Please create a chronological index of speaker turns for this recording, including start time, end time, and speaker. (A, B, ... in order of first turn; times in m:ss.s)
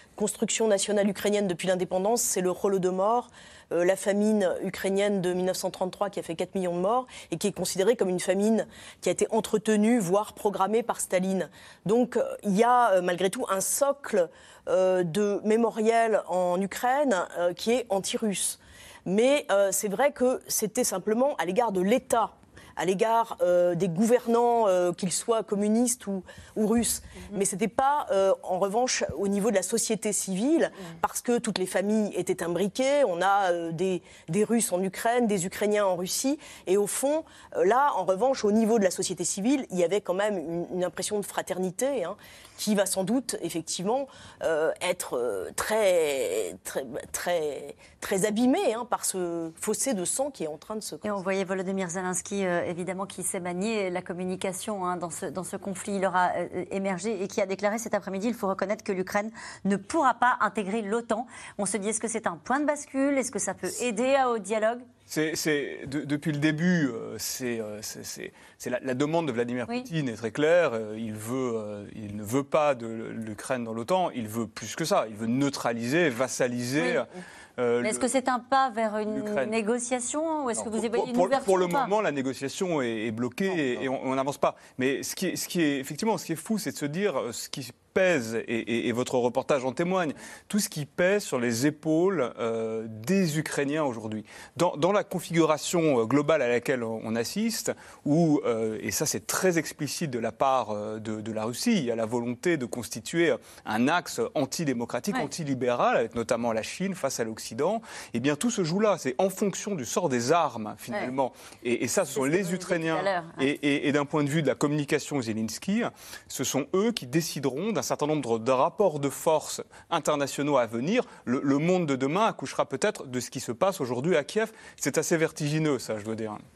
0:00.2-0:51.2 A
0:51.0-1:04.8 B
1:05.1-1:17.0 C
1:17.6-1:18.1 C
1:17.8-1:21.9 B
1:19.1-1:19.5 C
1:20.7-2:06.4 C
1:52.1-1:53.5 B